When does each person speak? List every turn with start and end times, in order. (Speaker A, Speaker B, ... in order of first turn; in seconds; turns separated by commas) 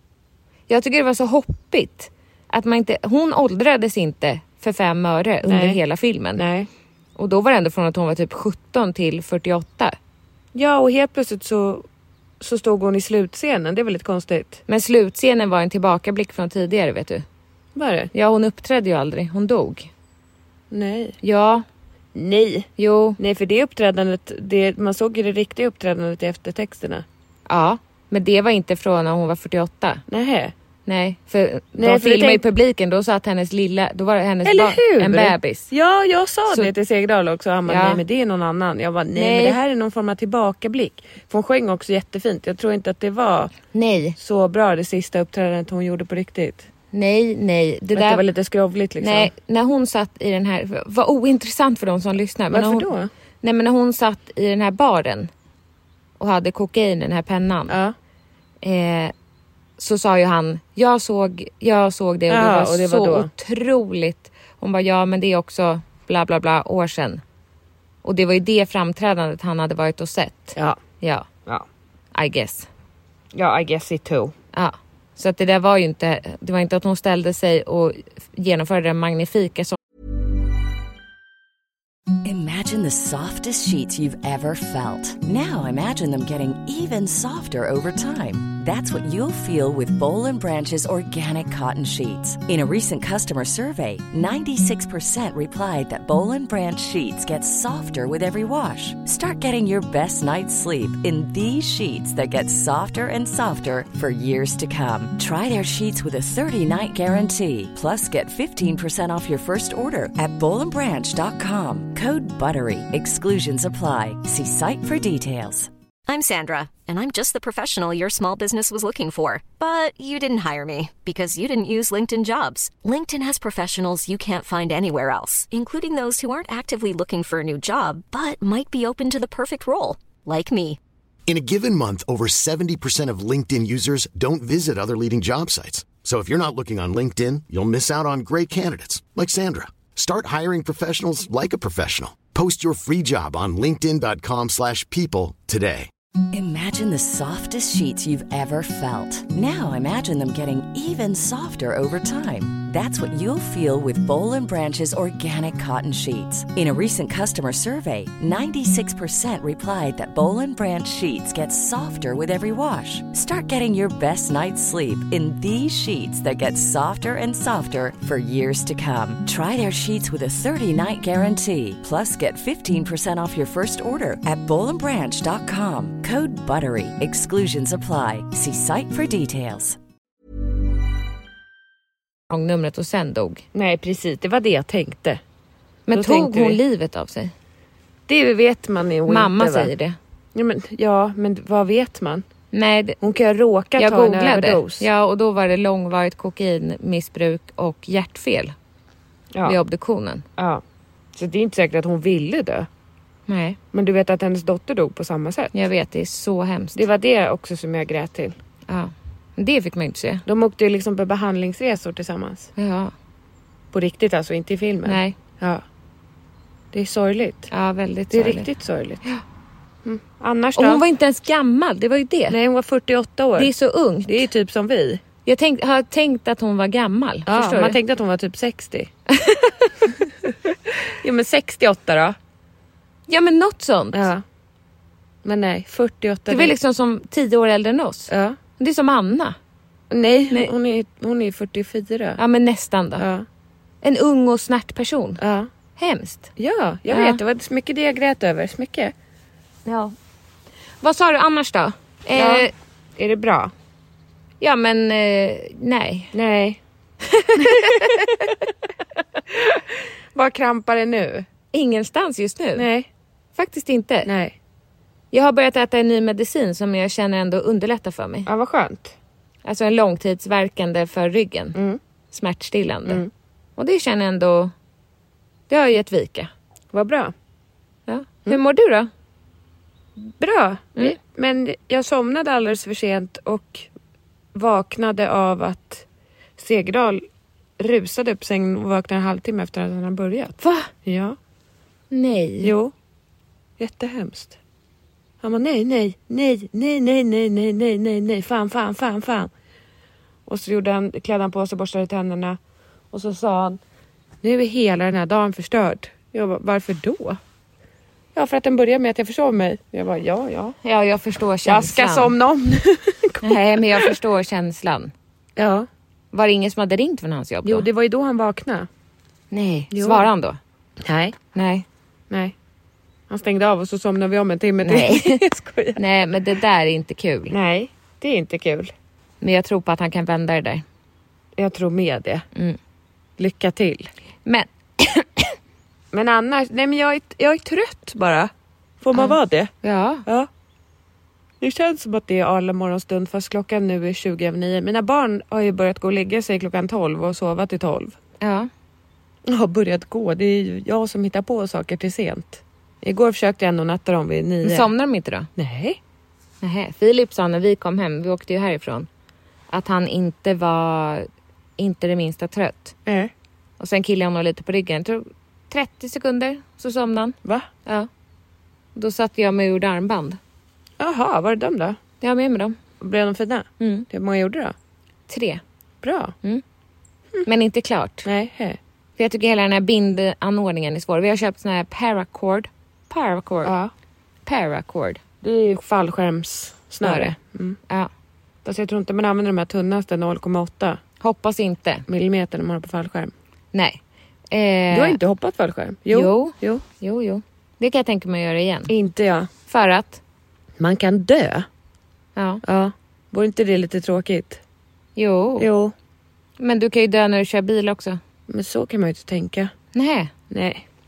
Speaker A: 0.7-6.4, Speaker B: 5.4-5.8, Speaker B: 6.3-6.7, Speaker A: 7.2-10.0, Speaker B: 10.5-11.9, Speaker B: 12.4-14.6, Speaker A: 14.7-17.2, Speaker B: 17.8-18.1, Speaker A: 18.1-19.9, Speaker B: 20.7-21.2, Speaker A: 21.2-21.6, Speaker B: 22.1-27.1, Speaker A: 22.8-23.2, Speaker A: 27.5-30.0, Speaker B: 30.1-30.5, Speaker A: 30.9-35.7, Speaker B: 31.8-32.4, Speaker B: 34.5-43.5, Speaker A: 37.7-38.0, Speaker A: 39.1-39.6, Speaker A: 43.7-44.2, Speaker B: 44.2-46.6, Speaker A: 46.9-48.2, Speaker B: 47.9-49.3, Speaker A: 49.0-52.9, Speaker B: 52.5-53.1, Speaker A: 53.4-55.3, Speaker A: 56.2-57.8, Speaker B: 57.7-58.0, Speaker A: 58.6-59.1, Speaker A: 59.8-67.2, Speaker B: 62.3-63.3, Speaker A: 68.0-71.3, Speaker A: 72.2-72.7, Speaker B: 73.3-74.3, Speaker A: 74.5-79.8, Speaker C: 82.2-115.7, Speaker D: 116.1-130.8, Speaker E: 131.3-145.9, Speaker C: 146.3-179.8, Speaker A: 182.3-183.4, Speaker B: 183.5-185.2, Speaker A: 185.9-187.3, Speaker B: 185.9-186.6, Speaker B: 188.1-189.7, Speaker A: 189.1-190.0, Speaker B: 190.3-192.2, Speaker A: 192.5-193.0, Speaker B: 193.0-194.9, Speaker A: 193.8-198.5, Speaker A: 199.4-200.2, Speaker B: 200.4-200.6, Speaker B: 201.1-202.7, Speaker A: 203.3-203.6, Speaker B: 203.7-205.5, Speaker A: 205.5-206.8, Speaker B: 206.8-208.3, Speaker A: 208.7-210.2, Speaker B: 210.3-212.5, Speaker A: 212.6-212.9, Speaker B: 213.7-215.6, Speaker A: 214.9-215.2, Speaker B: 216.7-217.5, Speaker A: 217.5-218.5, Speaker B: 218.1-219.0, Speaker B: 219.8-220.8, Speaker A: 220.6-222.4, Speaker B: 222.3-223.5, Speaker A: 223.4-224.3, Speaker B: 224.1-225.0, Speaker A: 225.3-227.8, Speaker B: 227.3-228.9, Speaker A: 229.1-229.7, Speaker B: 230.9-232.2, Speaker A: 233.1-234.1, Speaker B: 233.9-234.2, Speaker B: 235.2-236.5, Speaker A: 236.3-239.4, Speaker B: 238.1-238.4, Speaker B: 239.9-242.2, Speaker A: 242.2-243.1, Speaker B: 243.0-243.3, Speaker A: 243.8-245.2, Speaker B: 245.2-245.5, Speaker A: 245.8-246.3, Speaker B: 246.4-248.9, Speaker A: 246.9-247.2, Speaker A: 249.7-249.9, Speaker A: 250.8-252.5, Speaker B: 252.2-253.5, Speaker A: 254.4-256.1, Speaker B: 256.1-256.6, Speaker A: 257.1-258.0, Speaker B: 257.4-258.3, Speaker B: 259.3-261.3, Speaker A: 261.5-262.7, Speaker B: 262.6-262.9, Speaker A: 263.4-264.1, Speaker B: 264.0-264.4, Speaker A: 265.1-268.3, Speaker B: 268.3-269.0, Speaker A: 269.4-271.6, Speaker B: 271.6-271.8, Speaker A: 272.1-273.1, Speaker B: 272.9-273.1, Speaker A: 273.6-274.5, Speaker A: 275.5-276.3, Speaker B: 276.7-277.1, Speaker A: 277.9-278.9, Speaker B: 280.0-283.7, Speaker B: 284.3-285.9, Speaker B: 286.4-287.0, Speaker B: 287.6-291.2, Speaker A: 290.4-290.7, Speaker A: 291.9-292.5, Speaker B: 292.4-292.7, Speaker B: 293.6-294.4, Speaker B: 295.2-299.3, Speaker B: 300.3-302.4, Speaker B: 302.9-303.6, Speaker B: 304.2-307.2, Speaker B: 308.1-310.6, Speaker A: 310.6-312.1, Speaker B: 311.4-314.0, Speaker A: 313.2-314.9, Speaker B: 315.4-315.7, Speaker A: 316.1-317.7, Speaker B: 317.4-318.7, Speaker A: 319.3-320.4, Speaker B: 319.7-320.1, Speaker B: 320.8-321.2, Speaker A: 321.4-321.6, Speaker B: 322.1-322.4, Speaker B: 323.1-325.8, Speaker A: 324.6-325.2, Speaker A: 325.8-327.4, Speaker B: 327.3-328.7, Speaker A: 329.2-330.6, Speaker B: 331.4-332.3, Speaker B: 333.2-333.9, Speaker A: 334.2-335.3, Speaker B: 335.9-339.5, Speaker A: 338.9-340.1, Speaker B: 341.4-348.0, Speaker A: 348.2-348.5, Speaker B: 349.3-354.7, Speaker A: 354.4-355.3, Speaker B: 355.4-355.8, Speaker A: 356.4-358.9, Speaker A: 359.5-362.8, Speaker B: 362.9-363.1, Speaker A: 363.6-367.9, Speaker A: 368.8-370.2, Speaker B: 370.8-371.8, Speaker A: 372.0-372.6, Speaker B: 372.8-374.6, Speaker A: 373.6-373.9, Speaker A: 375.1-375.4, Speaker B: 375.8-376.1, Speaker A: 377.2-378.1, Speaker B: 378.1-378.6, Speaker A: 379.0-383.5, Speaker B: 383.4-383.7, Speaker A: 384.3-385.0, Speaker B: 385.2-387.6, Speaker A: 386.8-387.1, Speaker B: 388.4-390.8, Speaker A: 391.0-391.8, Speaker B: 391.9-393.1, Speaker A: 393.5-393.8, Speaker A: 394.3-395.0, Speaker B: 394.7-396.6, Speaker A: 395.9-398.7, Speaker B: 398.7-399.3, Speaker A: 399.5-400.0, Speaker B: 400.6-401.5, Speaker A: 402.2-402.4, Speaker B: 402.4-404.4, Speaker A: 405.0-405.5, Speaker B: 405.4-405.7, Speaker A: 406.4-408.0, Speaker B: 408.3-409.5, Speaker A: 409.7-410.1, Speaker B: 410.3-410.6